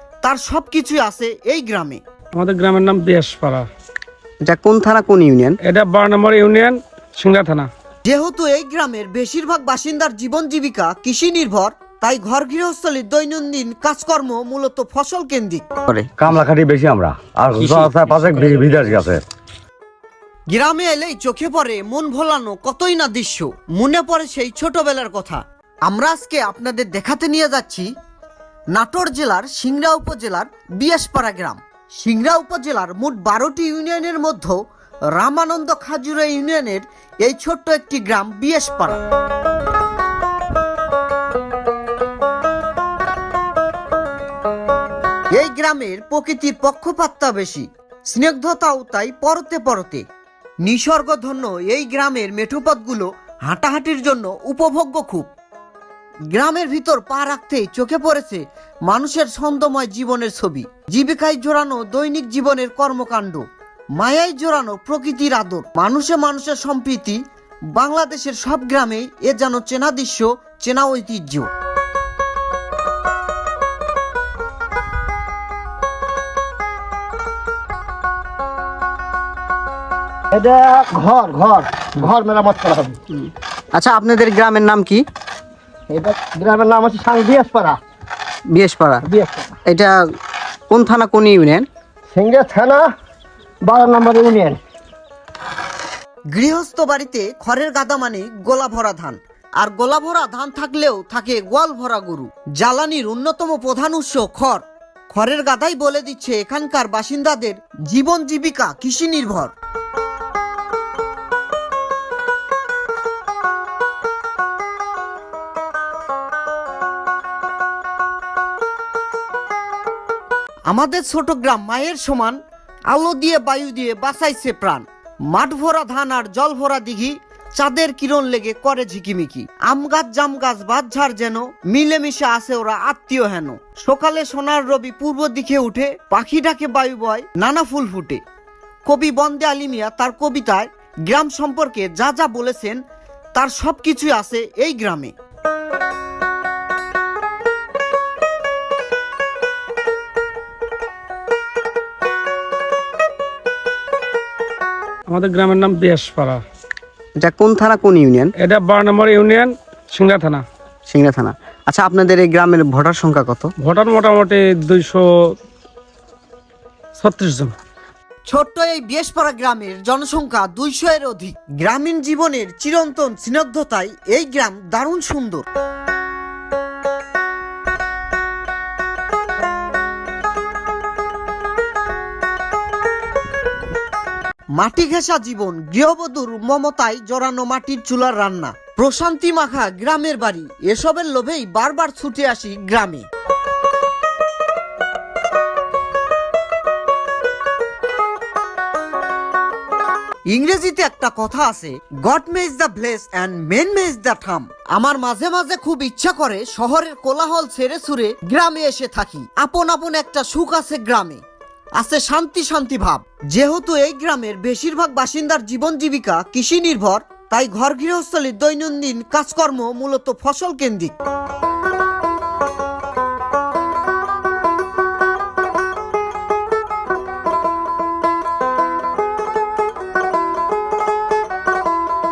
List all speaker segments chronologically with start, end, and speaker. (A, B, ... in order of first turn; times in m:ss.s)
0:00.2-0:02.0 A
0:02.4-0:03.6 B
0:04.4-0:05.6 C
0:05.6-0:07.7 B
0:08.0-0:15.6 A
0:15.9-0:16.1 C
0:16.2-0:19.2 D
0:17.6-0:18.6 C
0:20.5-0:27.9 A
0:28.7-0:34.6 A
0:35.1-0:39.0 A
0:45.3-0:50.0 A
0:50.6-0:55.3 A
0:56.3-1:03.4 A
1:04.0-1:07.2 A
1:07.8-1:11.5 A
1:20.3-1:23.0 E
1:23.1-1:25.0 C
1:25.9-1:27.8 E
1:28.5-1:29.0 C
1:29.1-1:29.6 E
1:29.6-1:30.0 C
1:30.7-1:31.6 C
1:32.1-1:32.9 E
1:33.6-1:34.6 E
1:36.3-1:49.5 A
2:00.7-2:02.4 A
2:02.9-2:18.2 A
2:18.8-2:22.8 A
2:23.3-2:25.1 A
2:35.1-2:36.4 B
2:37.2-2:38.3 C
2:38.4-2:40.4 B
2:40.9-2:43.5 C
2:43.6-2:45.0 B
2:47.0-2:47.5 B
2:48.3-2:55.4 A
3:04.6-3:13.1 A
3:20.3-3:31.2 A
3:31.8-3:40.9 A